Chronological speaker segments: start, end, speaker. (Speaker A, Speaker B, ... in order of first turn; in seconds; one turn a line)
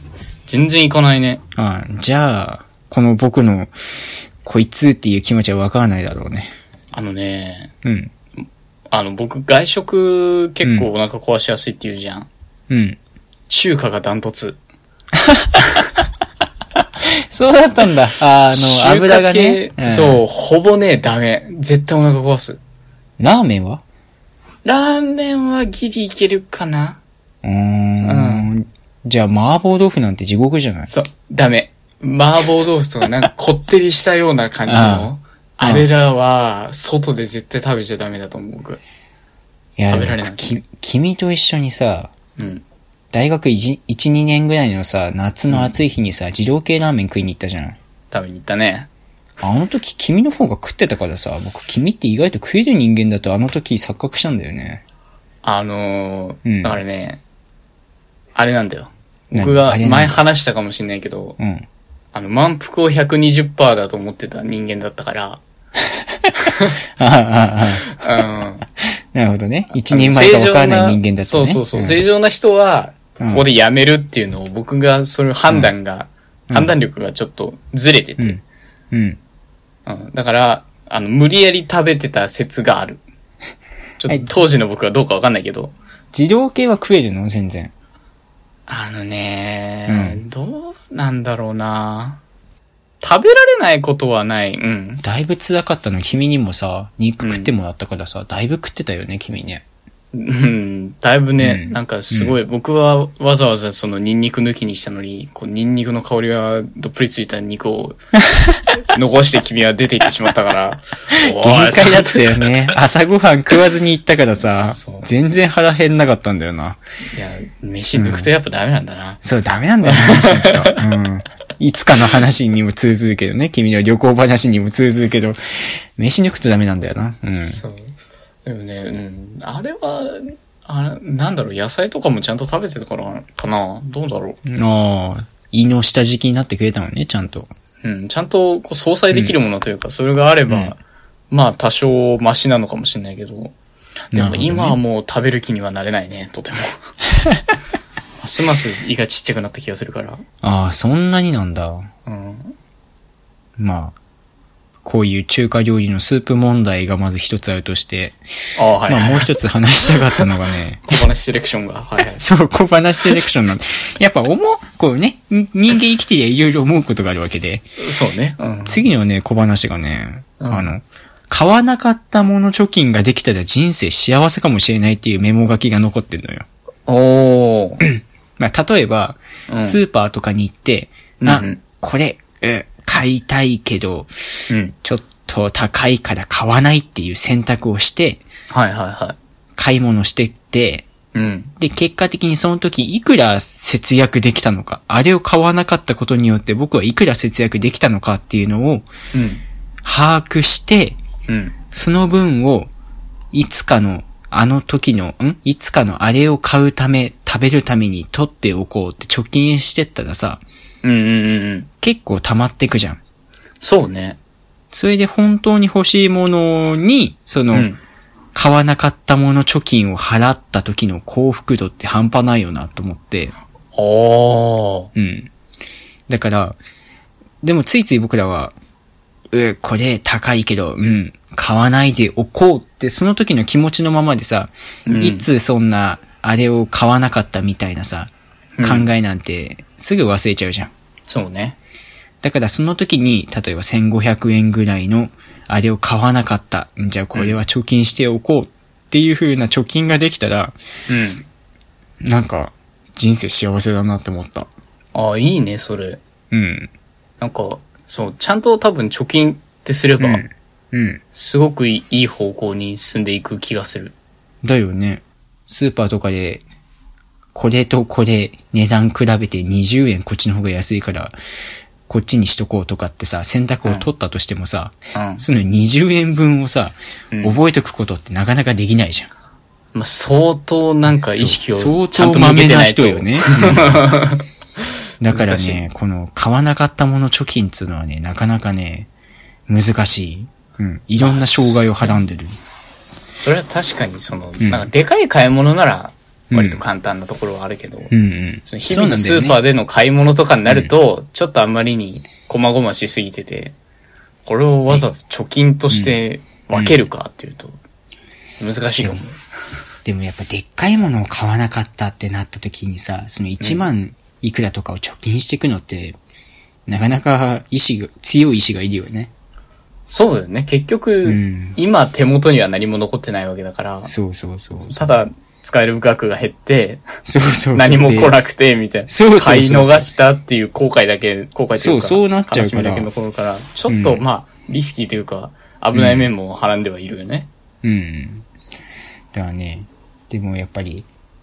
Speaker A: 0.5-1.4
Speaker B: 1.6-3.7
Speaker B: 4.4-6.5
Speaker A: 6.9-7.7
Speaker B: 7.8-8.1
Speaker A: 8.9-12.3
Speaker B: 12.7-13.0
Speaker A: 13.5-14.6
Speaker B: 15.3-15.6
Speaker B: 17.3-20.2
Speaker A: 18.5-22.6
Speaker B: 23.2-23.8
Speaker A: 24.6-27.0
Speaker B: 27.4-30.9
Speaker A: 28.0-28.5
Speaker A: 30.9-38.8
Speaker B: 34.7-35.1
Speaker B: 35.6-35.9
Speaker B: 39.8-42.1
Speaker A: 39.9-40.5
Speaker A: 42.4-42.6
Speaker B: 43.1-47.8
Speaker A: 48.1-48.9
Speaker B: 49.4-54.8
Speaker A: 55.4-57.2
Speaker B: 56.4-56.8
Speaker A: 58.4-61.4
Speaker B: 59.3-60.2
Speaker B: 61.4-61.6
Speaker A: 62.1-65.4
Speaker B: 67.0-67.9
Speaker A: 67.9-68.6
Speaker B: 69.1-72.0
Speaker A: 69.9-78.4
Speaker B: 73.2-73.4
Speaker B: 78.9-79.2
Speaker A: 79.8-83.0
Speaker A: 84.0-85.7
Speaker B: 84.1-84.3
Speaker B: 86.1-87.7
Speaker A: 88.7-92.2
Speaker B: 89.9-90.2
Speaker A: 93.0-95.0
Speaker B: 95.0-99.6
Speaker A: 97.2-97.5
Speaker A: 100.1-108.0
Speaker B: 101.4-102.4
Speaker A: 108.9-112.5
Speaker B: 111.1-116.8
Speaker A: 114.7-115.1
Speaker A: 117.1-119.2
Speaker B: 117.9-118.3
Speaker B: 119.2-127.6
Speaker A: 119.8-120.8
Speaker A: 127.4-127.9
Speaker A: 128.4-134.4
Speaker B: 134.5-137.5
Speaker A: 137.8-140.8
Speaker B: 140.5-140.7
Speaker A: 141.3-143.5
Speaker B: 144.1-144.8
Speaker A: 144.1-146.8
Speaker A: 148.2-150.2
Speaker B: 150.4-151.9
Speaker A: 152.1-152.5
Speaker B: 153.6-153.9
Speaker B: 154.8-158.2
Speaker A: 158.6-159.2
Speaker B: 158.9-161.0
Speaker A: 160.9-162.2
Speaker B: 162.2-167.7
Speaker A: 167.8-168.8
Speaker B: 168.7-176.4
Speaker A: 170.4-170.7
Speaker A: 176.9-177.8
Speaker B: 177.8-188.2
Speaker A: 179.5-179.8
Speaker A: 181.2-181.6
Speaker A: 184.5-184.7
Speaker A: 188.5-189.2
Speaker B: 189.6-190.9
Speaker A: 191.1-191.5
Speaker B: 191.6-198.8
Speaker A: 199.1-199.4
Speaker B: 199.8-201.0
Speaker A: 201.3-201.6
Speaker B: 201.7-202.7
Speaker B: 203.3-210.4
Speaker A: 210.8-211.7
Speaker B: 211.8-213.0
Speaker A: 213.6-214.2
Speaker B: 214.7-217.7
Speaker A: 217.5-217.8
Speaker B: 218.3-223.3
Speaker A: 223.7-224.9
Speaker B: 224.9-225.3
Speaker B: 226.1-226.6
Speaker B: 227.4-228.5
Speaker B: 229.3-240.7
Speaker A: 234.8-235.3
Speaker A: 238.6-238.9
Speaker A: 241.1-241.6
Speaker B: 242.2-250.6
Speaker A: 250.9-251.2
Speaker B: 252.0-254.5
Speaker A: 254.9-256.0
Speaker B: 256.3-256.7
Speaker A: 257.2-260.2
Speaker B: 260.0-261.0
Speaker A: 261.1-263.9
Speaker B: 264.4-266.4
Speaker B: 267.3-271.1
Speaker B: 271.9-279.1
Speaker A: 274.9-275.2
Speaker A: 277.1-277.4
Speaker A: 279.7-284.2
Speaker B: 280.9-283.9
Speaker B: 285.0-288.9
Speaker A: 285.1-285.6
Speaker B: 289.5-292.4
Speaker A: 291.0-291.9
Speaker A: 293.1-297.9
Speaker B: 294.4-294.7
Speaker B: 296.3-296.6
Speaker B: 297.9-299.4
Speaker A: 298.4-303.5
Speaker A: 304.2-307.6
Speaker B: 305.7-306.0
Speaker A: 308.4-309.2
Speaker B: 308.8-309.0
Speaker B: 309.8-315.9
Speaker A: 313.4-313.6
Speaker B: 316.7-319.1
Speaker A: 319.9-323.9
Speaker B: 321.0-321.6
Speaker B: 323.8-325.0
Speaker A: 324.7-326.8
Speaker B: 327.0-328.1
Speaker A: 327.5-337.3
Speaker B: 328.9-329.9
Speaker B: 331.6-332.9
Speaker B: 333.7-334.0
Speaker B: 335.7-336.1
Speaker B: 337.6-338.2
Speaker B: 339.1-340.9